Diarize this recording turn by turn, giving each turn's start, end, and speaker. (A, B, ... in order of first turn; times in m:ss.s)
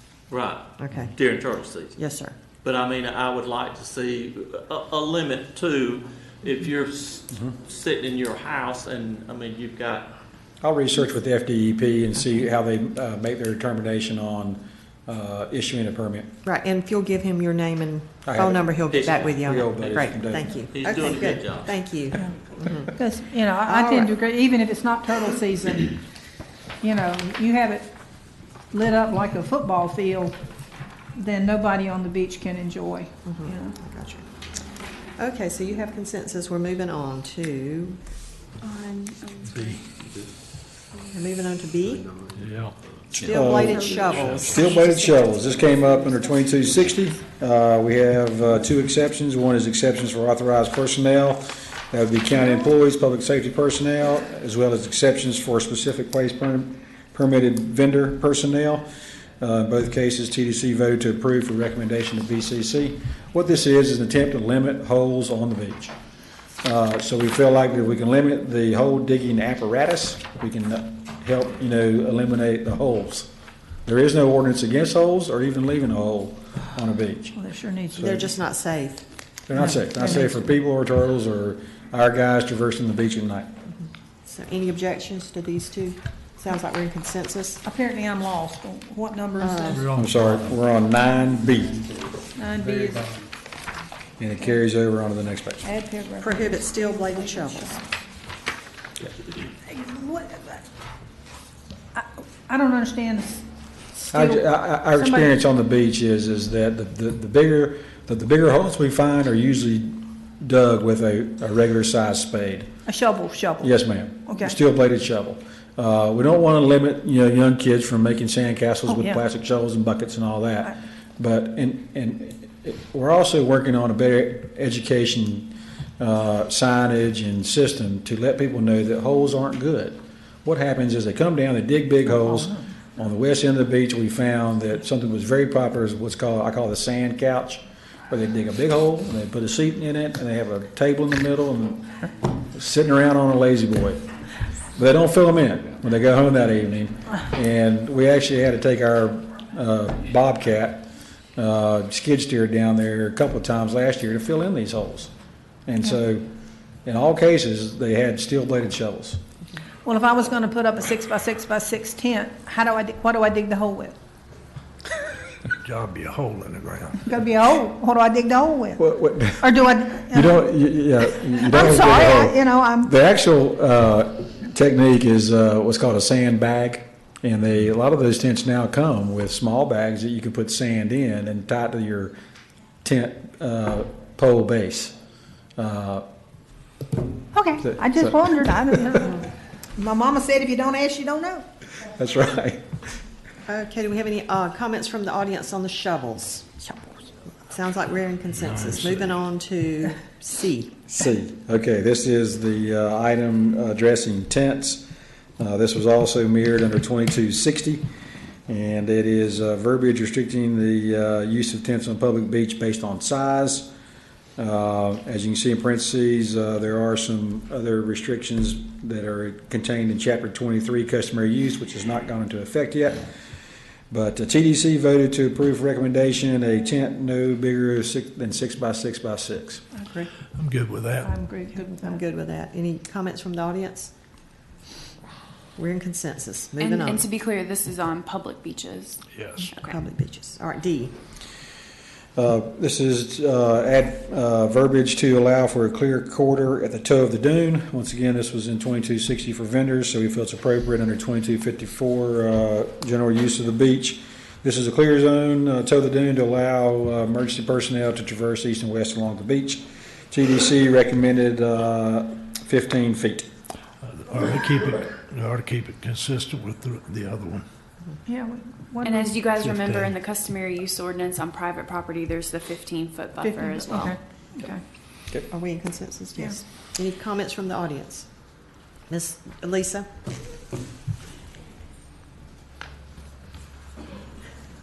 0:00.3-0:02.0 A
0:00.8-0:01.1 B
0:01.9-0:02.3 B
0:02.6-0:10.1 A
0:10.6-0:16.3 C
0:16.4-0:22.9 B
0:18.2-0:18.6 C
0:18.9-0:20.1 A
0:19.3-0:20.5 C
0:20.7-0:21.8 A
0:22.9-0:26.0 D
0:23.6-0:24.1 B
0:26.8-0:27.9 D
0:28.7-0:30.4 D
0:31.1-0:33.8 D
0:33.2-0:34.2 B
0:35.2-0:38.0 B
0:38.6-0:39.8 E
0:39.5-0:39.8 F
0:41.1-0:42.0 B
0:42.4-0:42.7 F
0:43.1-0:58.8 C
0:43.2-0:46.5 B
0:44.1-0:44.5 F
0:59.4-1:05.9 C
1:06.6-1:13.3 C
1:13.8-1:17.3 C
1:17.4-1:18.1 D
1:17.9-1:18.3 C
1:18.0-1:19.0 B
1:19.5-1:23.5 C
1:24.2-1:27.6 B
1:27.6-1:29.9 D
1:29.4-1:29.9 B
1:29.9-1:31.9 C
1:32.4-1:33.2 D
1:34.2-1:35.7 C
1:35.6-1:37.7 D
1:36.2-1:37.8 B
1:39.7-1:40.6 D
1:41.9-1:44.4 D
1:44.1-1:52.7 C
1:45.0-1:45.3 D
1:52.9-1:53.7 D
1:53.6-2:24.0 C
1:54.2-1:54.5 D
1:58.9-1:59.2 D
2:24.7-2:35.1 C
2:35.7-2:36.3 C
2:36.8-2:39.2 C
2:39.8-2:43.9 D
2:45.6-2:47.0 F
2:47.0-2:48.8 D
2:48.8-2:49.5 C
2:49.4-2:50.4 D
2:50.1-3:02.2 C
2:51.4-2:52.9 D
3:02.8-3:04.9 C
3:05.6-3:06.0 C
3:07.3-3:09.2 D
3:07.6-3:09.1 C
3:09.8-3:11.4 D
3:11.8-3:12.6 C
3:13.5-3:16.7 B
3:17.4-3:20.8 B
3:18.5-3:19.0 F
3:20.9-3:24.8 C
3:25.4-3:27.8 C
3:28.5-3:33.7 C
3:34.4-3:43.1 C
3:43.9-3:49.6 C
3:49.8-3:50.1 B
3:50.3-3:51.2 F
3:51.0-3:51.9 D
3:51.7-3:53.9 B
3:55.6-3:57.1 B
3:56.6-3:59.8 E
3:59.1-3:59.4 F
3:59.4-4:00.9 B
4:02.2-4:23.3 C
4:23.8-4:27.5 F
4:28.0-4:29.2 D
4:28.8-4:34.6 E
4:29.4-4:29.9 F
4:33.2-4:34.5 D
4:35.3-4:38.0 B
4:38.9-4:39.9 B